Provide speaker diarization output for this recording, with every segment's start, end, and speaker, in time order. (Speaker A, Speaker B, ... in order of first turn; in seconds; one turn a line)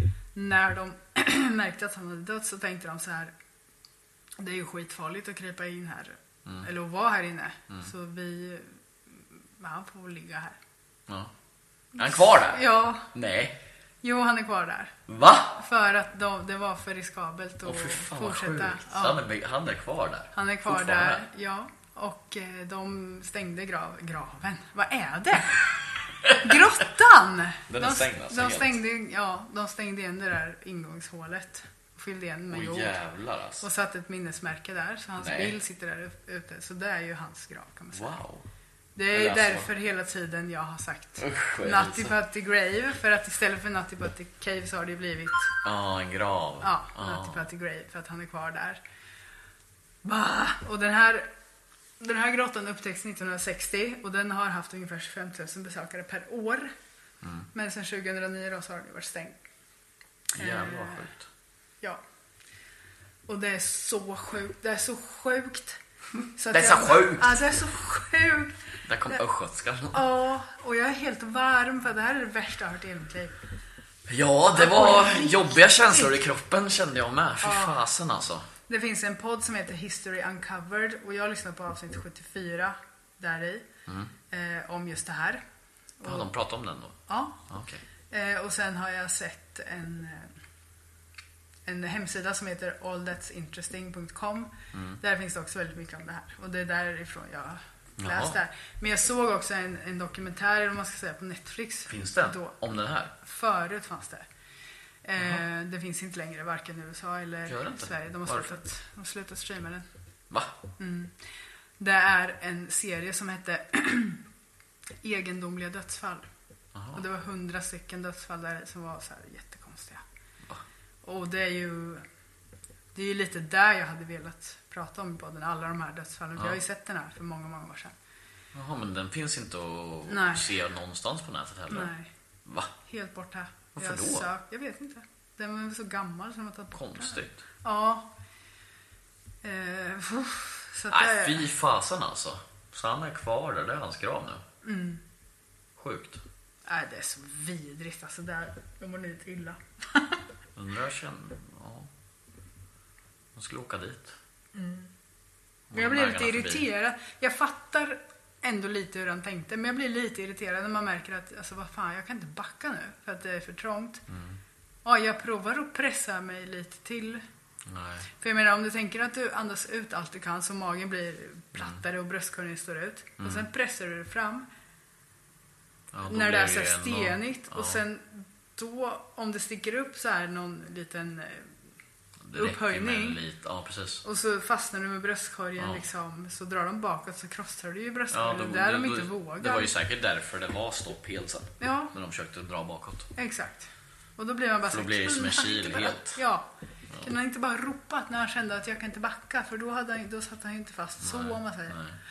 Speaker A: 0.3-3.3
Speaker A: 4.4-10.6
Speaker A: 11.9-13.1
Speaker B: 12.0-13.6
Speaker A: 14.0-14.9
Speaker B: 15.1-15.6
Speaker A: 15.6-19.2
Speaker B: 17.6-21.2
Speaker A: 20.3-25.7
Speaker B: 26.2-26.7
Speaker A: 26.3-33.0
Speaker B: 27.7-28.8
Speaker B: 32.5-33.6
Speaker A: 33.6-38.2
Speaker B: 35.2-35.5
Speaker B: 37.9-38.5
Speaker A: 39.0-45.5
Speaker B: 39.1-39.7
Speaker B: 41.2-42.1
Speaker B: 45.6-47.4
Speaker A: 46.6-48.8
Speaker A: 50.0-51.3
Speaker A: 52.0-56.7
Speaker B: 57.2-57.5
Speaker A: 57.5-59.4
Speaker A: 60.3-61.1
Speaker B: 60.4-61.2
Speaker A: 63.3-65.8
Speaker A: 66.3-69.2
Speaker B: 66.5-67.4
Speaker B: 68.8-70.0
Speaker A: 69.9-73.3
Speaker B: 74.1-78.5
Speaker A: 74.5-76.2
Speaker A: 77.4-77.8
Speaker A: 78.7-83.7
Speaker B: 83.9-84.1
Speaker A: 84.3-85.4
Speaker A: 86.0-86.3
Speaker B: 86.0-87.0
Speaker A: 87.1-87.4
Speaker B: 87.5-87.8
Speaker A: 88.1-90.3
Speaker A: 91.7-102.5
Speaker B: 94.7-95.0
Speaker B: 98.0-98.4
Speaker B: 101.9-103.1
Speaker A: 103.2-104.2
Speaker A: 105.0-109.8
Speaker B: 107.5-108.5
Speaker A: 110.8-111.2
Speaker A: 111.8-114.2
Speaker A: 115.0-116.3
Speaker B: 116.7-117.0
Speaker A: 116.9-120.0
Speaker A: 121.0-122.0
Speaker A: 122.9-127.9
Speaker B: 128.5-131.9
Speaker A: 130.1-130.5
Speaker A: 131.7-132.1
Speaker B: 132.4-132.7
Speaker A: 132.8-138.1
Speaker B: 133.7-134.3
Speaker B: 136.7-137.4
Speaker A: 139.4-141.5
Speaker B: 140.9-144.4
Speaker A: 144.6-145.0
Speaker B: 145.8-146.2
Speaker A: 146.7-150.2
Speaker B: 150.6-151.9
Speaker B: 153.3-154.2
Speaker A: 154.5-154.9
Speaker B: 155.7-156.7
Speaker A: 155.7-164.0
Speaker B: 164.1-164.4
Speaker A: 164.8-167.2
Speaker B: 167.7-168.1
Speaker A: 168.2-174.4
Speaker B: 173.2-173.5
Speaker B: 175.9-177.8
Speaker A: 176.1-181.5
Speaker B: 182.2-184.0
Speaker A: 182.3-183.2
Speaker A: 184.0-189.7
Speaker B: 185.6-185.8
Speaker B: 188.1-193.1
Speaker A: 191.6-191.9
Speaker A: 193.2-201.8
Speaker B: 194.7-196.2
Speaker B: 201.0-202.0